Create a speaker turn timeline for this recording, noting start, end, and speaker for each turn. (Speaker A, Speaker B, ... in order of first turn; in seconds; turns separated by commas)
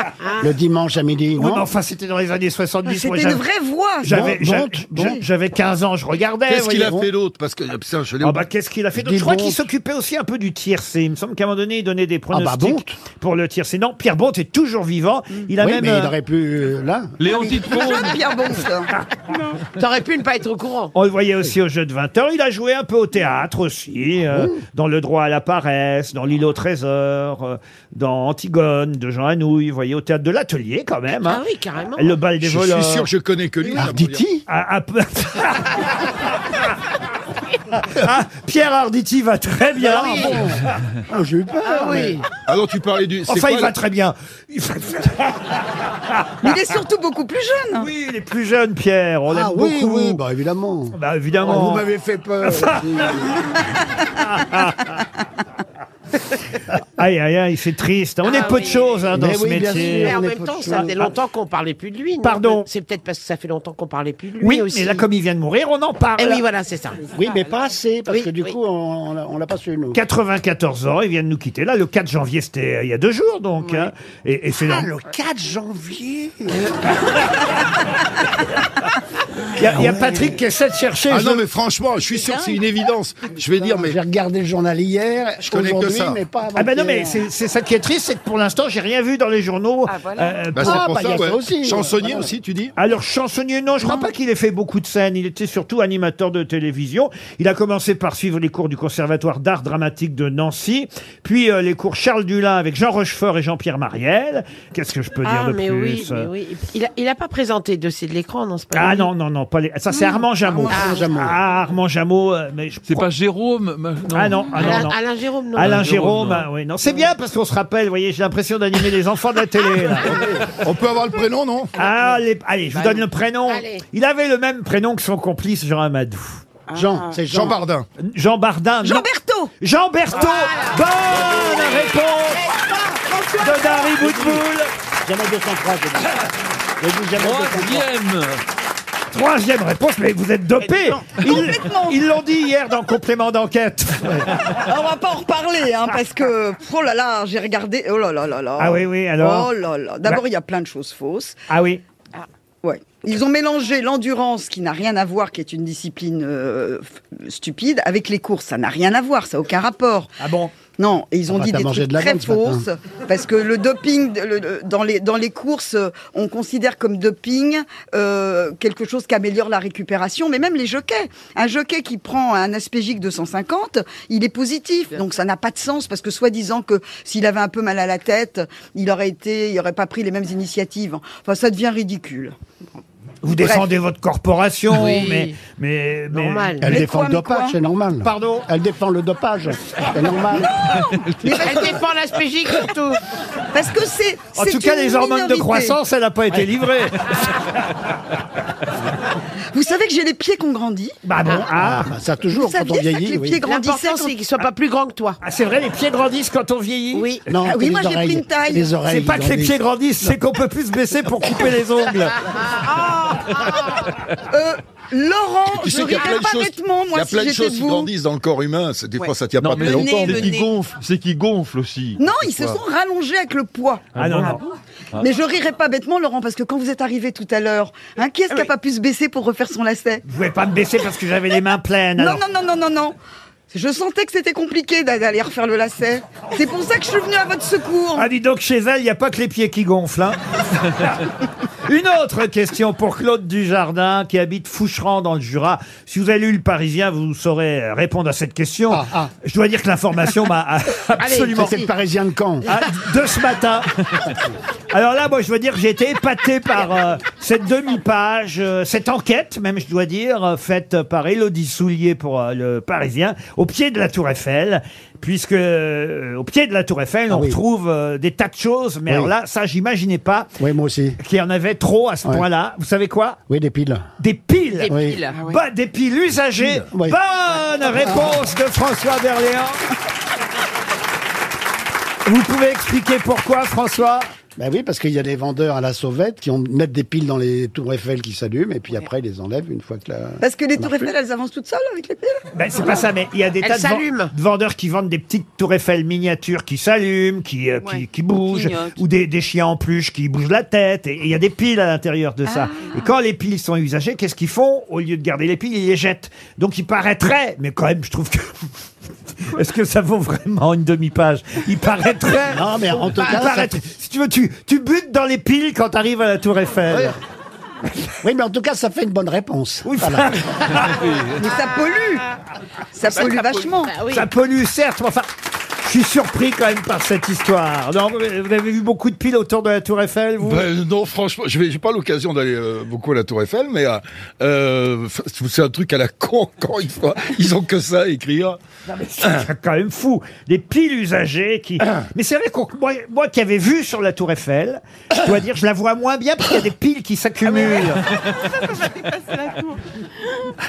Speaker A: 0.4-1.7, Speaker B: 1.4-3.4, Speaker C: 2.9-4.4, Speaker B: 4.0-7.0, Speaker A: 4.1-4.9, Speaker D: 6.5-8.4, Speaker B: 8.2-16.1, Speaker A: 8.9-9.7, Speaker A: 12.3-12.9, Speaker A: 15.6-17.1, Speaker E: 17.2-18.3, Speaker C: 17.3-18.9, Speaker F: 19.3-19.6, Speaker G: 19.7-20.9, Speaker B: 20.9-31.4, Speaker A: 24.3-24.6, Speaker G: 31.1-32.2, Speaker B: 32.0-33.1, Speaker D: 32.4-34.2, Speaker A: 33.6-34.4, Speaker B: 34.5-36.0, Speaker B: 37.9-40.5, Speaker A: 39.8-42.2, Speaker G: 39.8-40.5, Speaker G: 41.6-42.2, Speaker D: 42.5-43.8, Speaker B: 43.3-45.6, Speaker B: 46.1-46.5, Speaker C: 46.4-47.9, Speaker B: 47.8-50.2, Speaker A: 49.3-53.5, Speaker B: 50.9-51.9, Speaker B: 52.4-53.1, Speaker B: 54.2-55.0, Speaker B: 57.0-61.1, Speaker G: 58.2-59.1, Speaker A: 59.1-61.0, Speaker G: 59.6-65.1, Speaker B: 62.2-62.7, Speaker B: 64.4-66.4, Speaker G: 66.2-67.1, Speaker A: 67.1-70.0, Speaker G: 68.1-68.5, Speaker B: 69.9-74.9, Speaker A: 74.6-76.7, Speaker B: 79.5-81.4, Speaker A: 79.6-80.4, Speaker D: 81.1-84.0, Speaker F: 82.1-82.7, Speaker A: 83.5-87.2, Speaker D: 85.5-86.2, Speaker B: 86.5-90.9, Speaker F: 89.9-90.5, Speaker D: 90.5-92.7, Speaker A: 90.6-92.3, Speaker B: 92.8-106.3, Speaker G: 105.2-109.1, Speaker B: 108.7-113.1, Speaker G: 110.7-111.0, Speaker A: 110.7-111.4, Speaker E: 112.9-114.8, Speaker B: 114.1-115.0, Speaker G: 114.5-115.8, Speaker B: 115.5-120.2, Speaker E: 115.6-116.5, Speaker A: 120.1-120.4, Speaker D: 120.5-121.7, Speaker B: 121.8-126.4, Speaker G: 121.8-122.2, Speaker G: 122.7-123.8, Speaker F: 126.7-127.2, Speaker A: 126.7-127.6, Speaker D: 127.3-127.8, Speaker B: 128.0-129.1, Speaker C: 128.8-129.5, Speaker B: 129.6-132.4, Speaker G: 130.1-134.3, Speaker B: 133.4-134.7, Speaker A: 135.0-136.2, Speaker A: 136.8-137.9, Speaker E: 137.2-138.4, Speaker B: 139.1-144.6, Speaker C: 141.1-142.0, Speaker C: 144.6-151.4, Speaker B: 148.6-149.5, Speaker B: 151.5-151.8, Speaker C: 152.6-160.1, Speaker B: 160.2-160.5, Speaker C: 160.8-182.3, Speaker A: 161.3-162.6, Speaker B: 183.2-186.6, Speaker C: 183.3-183.7, Speaker G: 184.7-185.4, Speaker G: 186.1-186.7, Speaker A: 186.6-190.5, Speaker C: 186.7-187.6, Speaker B: 188.0-188.5, Speaker C: 190.4-191.8, Speaker G: 191.2-193.0, Speaker C: 193.5-195.8, Speaker B: 194.3-197.2, Speaker C: 199.5-200.9, Speaker B: 201.0-201.9, Speaker A: 201.5-203.4, Speaker C: 202.3-204.2, Speaker G: 203.4-205.2, Speaker B: 205.2-207.1, Speaker G: 206.9-207.3, Speaker A: 207.3-210.1, Speaker C: 207.4-208.7, Speaker B: 208.8-212.2, Speaker G: 211.9-213.8, Speaker C: 214.3-217.9, Speaker D: 215.5-220.3, Speaker F: 219.0-220.5, Speaker E: 219.4-222.6, Speaker C: 222.0-223.9, Speaker E: 223.9-224.4, Speaker B: 224.0-224.4, Speaker C: 225.0-230.0, Speaker B: 230.1-232.2, Speaker C: 232.0-232.9, Speaker C: 233.5-238.1, Speaker B: 237.9-240.9, Speaker B: 241.6-251.7, Speaker A: 248.7-249.1, Speaker G: 251.0-251.7, Speaker A: 251.4-252.4, Speaker B: 252.4-253.7, Speaker B: 254.7-270.3, Speaker A: 267.1-267.4, Speaker A: 268.9-269.1, Speaker A: 270.4-271.0, Speaker B: 271.0-273.2, Speaker A: 273.3-273.9, Speaker B: 274.0-279.6, Speaker G: 274.6-275.1, Speaker A: 274.7-275.0, Speaker F: 275.1-275.4, Speaker A: 276.7-277.0, Speaker A: 277.7-278.2, Speaker B: 282.0-284.1, Speaker A: 284.4-290.9, Speaker C: 290.2-292.2, Speaker B: 292.3-308.4, Speaker G: 293.4-294.1, Speaker F: 297.6-298.8, Speaker F: 302.3-302.9, Speaker B: 309.3-316.9, Speaker A: 312.3-313.6, Speaker A: 318.0-320.1, Speaker B: 319.6-320.7, Speaker E: 320.6-321.2, Speaker C: 321.2-322.0, Speaker C: 322.7-323.7, Speaker G: 323.0-324.1, Speaker F: 323.0-323.5, Speaker B: 323.9-325.1, Speaker B: 325.6-330.4, Speaker D: 330.2-338.4, Speaker B: 338.7-347.8, Speaker F: 347.3-347.7, Speaker F: 348.4-349.6